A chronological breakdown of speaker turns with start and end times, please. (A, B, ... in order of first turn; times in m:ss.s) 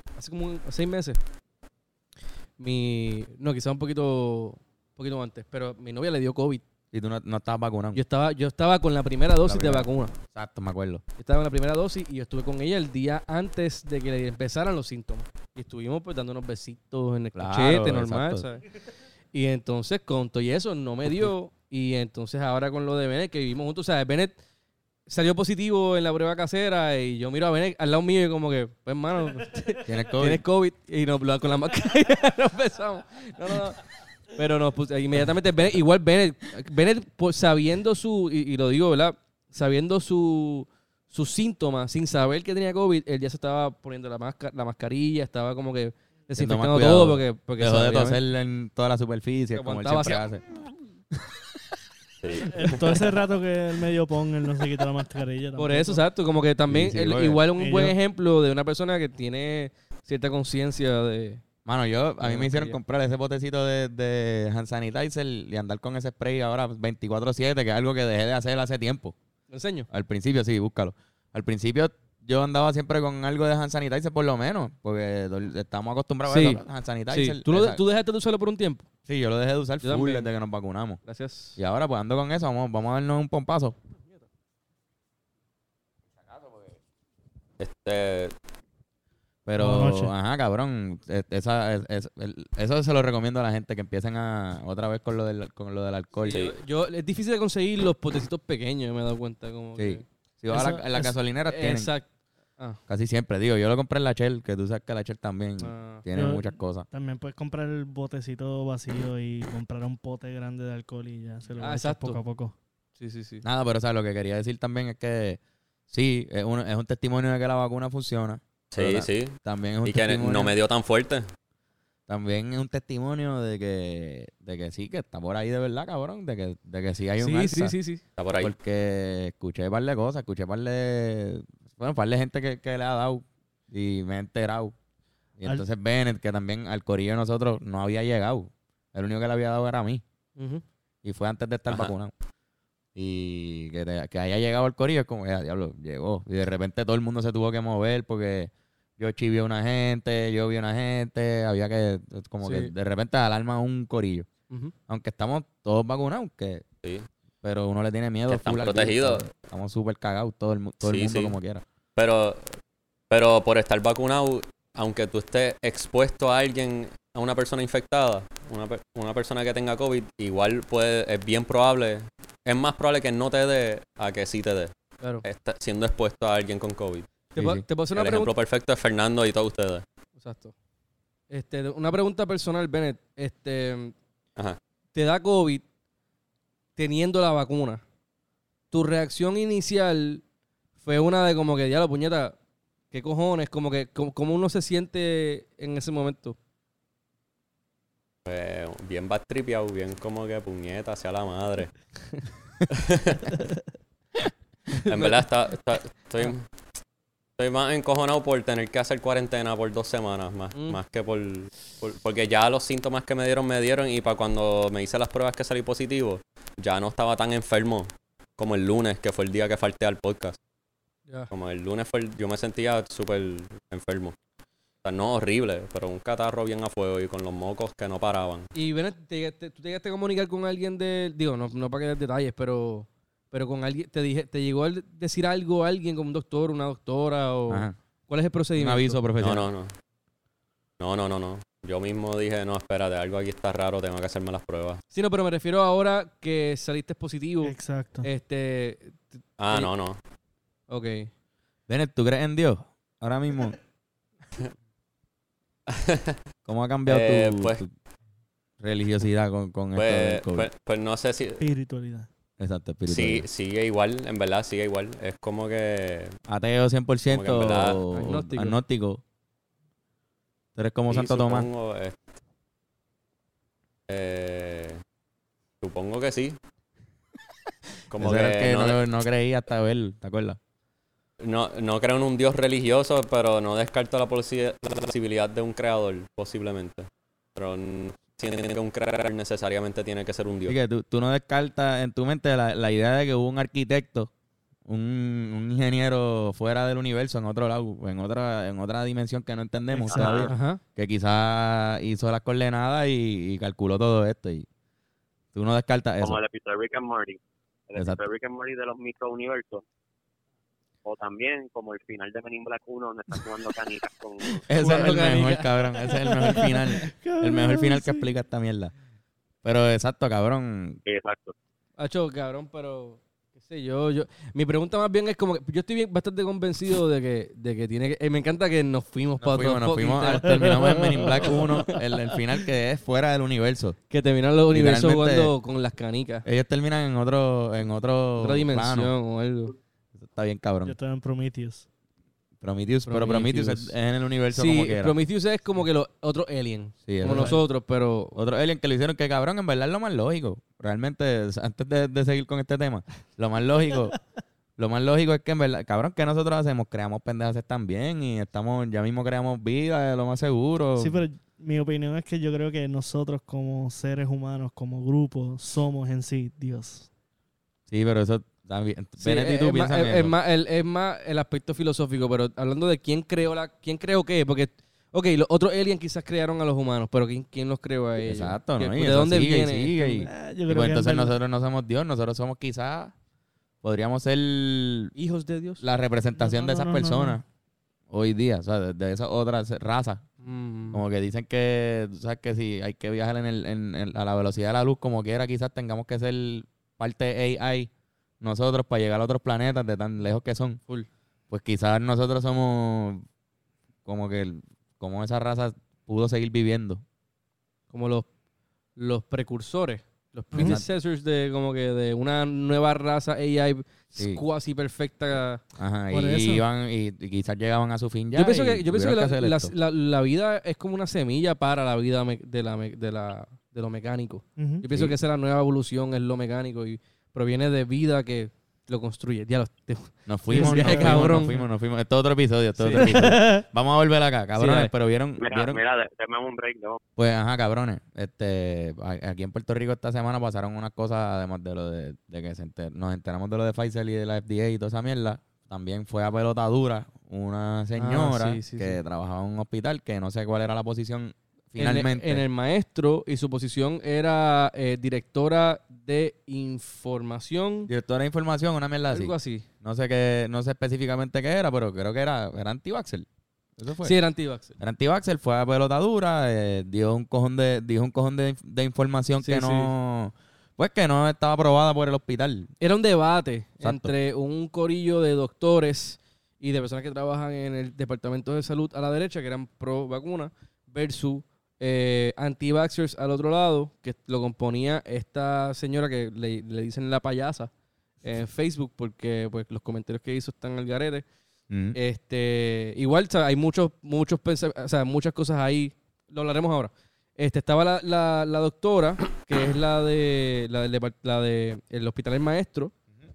0:00.2-0:01.2 A
0:02.6-0:06.6 A
0:06.9-0:08.0 B
0:07.9-0:10.1 A
0:09.4-0:11.0 B
0:11.2-0:18.6 A
0:17.3-0:18.4 B
0:19.3-0:24.4 A
0:25.1-0:48.2 A
0:29.8-0:30.4 B
0:46.4-0:50.4 B
0:49.5-0:50.2 A
0:51.1-0:51.4 B
0:52.2-0:53.2 C
0:52.4-0:56.0 D
0:55.6-1:01.4 A
0:56.7-0:57.4 B
0:57.6-0:57.9 D
1:01.6-1:09.1 B
1:02.2-1:02.8 A
1:09.5-1:09.9 A
1:09.9-1:17.8 B
1:16.3-1:18.9 A
1:19.1-1:21.0 B
1:19.8-1:20.3 A
1:21.0-1:21.6 A
1:21.6-1:23.8 B
1:27.6-1:28.3 C
1:29.4-1:36.4 B
1:29.6-1:30.1 D
1:36.2-1:42.1 A
1:36.2-1:36.5 C
1:39.8-1:41.9 B
1:42.9-1:46.8 B
1:45.6-1:46.0 A
1:46.1-1:52.5 D
1:51.6-1:52.2 A
1:53.0-1:53.4 A
1:53.4-1:55.4 B
1:55.9-2:00.6 B
1:58.7-2:01.3 C
2:02.1-2:07.8 B
2:07.2-2:08.0 A
2:08.2-2:08.5 C
2:08.4-2:14.7 B
2:15.4-2:20.0 B
2:20.4-2:20.6 A
2:21.0-2:22.1 B
2:23.0-2:34.3 B
2:32.4-2:32.7 A
2:34.9-2:36.6 B
2:37.4-2:41.6 B
2:38.3-2:39.3 C
2:40.8-2:41.4 C
2:42.0-2:42.6 C
2:43.1-2:54.7 C
2:55.2-2:57.1 C
2:57.4-2:57.6 B
2:57.4-2:58.3 A
2:57.9-2:59.8 C
3:00.2-3:00.5 A
3:01.3-3:03.9 A
3:04.9-3:05.6 A
3:06.8-3:07.8 A
3:08.7-3:10.2 A
3:10.8-3:12.4 A
3:12.9-3:16.4 A
3:18.2-3:21.7 C
3:22.7-3:23.3 C
3:24.8-3:25.2 A
3:24.8-3:26.5 C
3:27.4-3:40.4 C
3:30.5-3:30.8 A
3:41.3-3:44.1 C
3:44.8-3:48.5 C
3:48.5-3:59.0 A
3:57.5-3:57.8 B
3:58.6-3:59.5 B
3:59.2-3:59.7 C
4:00.8-4:04.8 C
4:04.9-4:09.7 A
4:07.4-4:08.1 D
4:09.4-4:10.0 C
4:10.7-4:11.1 A
4:11.7-4:13.6 B
4:15.7-4:16.2 C
4:16.5-4:17.7 B
4:16.9-4:17.6 C
4:18.6-4:20.5 B
4:19.7-4:21.4 C
4:21.4-4:22.1 D
4:22.4-4:23.2 B
4:22.9-4:26.1 C
4:26.3-4:29.0 B
4:27.1-4:27.8 C
4:27.9-4:28.6 A
4:30.6-4:31.5 B
4:30.9-4:32.0 C
4:33.9-4:34.8 C
4:35.6-4:36.4 C
4:37.9-4:38.8 C
4:38.0-4:40.4 B
4:41.2-4:50.6 C
4:50.5-4:54.1 B
4:54.7-5:04.5 B
4:59.7-5:00.3 D
4:59.9-5:00.6 A
4:59.9-5:00.2 E
5:05.3-5:06.2 B
5:06.0-5:09.6 E
5:07.8-5:08.0 B
5:10.8-5:14.5 E
5:14.5-5:18.7 B
5:14.5-5:15.6 A
5:15.9-5:18.1 D
5:19.4-5:20.8 B
5:20.8-5:21.3 E
5:21.8-5:31.4 A
5:29.2-5:33.8 B
5:30.3-5:31.4 D
5:33.9-5:36.2 A
5:34.5-5:35.3 B
5:36.2-5:38.9 B
5:38.2-5:39.5 A
5:40.0-5:40.7 B
5:40.6-5:41.6 D
5:42.4-5:45.0 B
5:42.8-5:43.7 A
5:44.3-5:48.2 A
5:46.8-5:47.4 B
5:47.0-5:47.4 D
5:48.1-5:54.0 B
5:54.6-6:01.0 B
6:00.8-6:06.9 D
6:07.7-6:10.1 B
6:09.0-6:20.1 A
6:18.0-6:22.9 B
6:20.0-6:21.2 D
6:23.6-6:24.9 B
6:24.9-6:25.6 A
6:25.6-6:27.2 B
6:26.2-6:27.2 D
6:27.9-6:30.0 B
6:30.2-6:30.8 A
6:30.7-6:37.7 B
6:38.2-6:40.6 B
6:41.3-6:43.0 B
6:43.8-6:46.8 B
6:47.7-6:48.1 A
6:48.8-6:55.4 A
6:50.3-6:50.6 D
6:50.3-6:50.7 B
6:54.0-6:54.2 B
6:55.6-6:59.5 B
6:55.9-6:56.4 D
6:58.1-7:11.4 A
7:04.4-7:04.6 D
7:04.7-7:04.9 B
7:10.1-7:15.6 B
7:10.3-7:11.4 D
7:12.6-7:13.0 A
7:12.7-7:13.4 D
7:14.4-7:14.7 A
7:15.2-7:16.8 E
7:17.0-7:32.2 B
7:27.8-7:28.8 A
7:31.6-7:37.7 A
7:37.7-7:44.0 B
7:38.9-7:39.4 A
7:43.8-7:44.5 A
7:44.6-7:52.5 B
7:49.2-7:49.7 A
7:52.6-8:07.5 A
7:53.6-7:53.9 B
8:08.0-8:11.0 A
8:11.5-8:11.8 B
8:11.7-8:22.7 A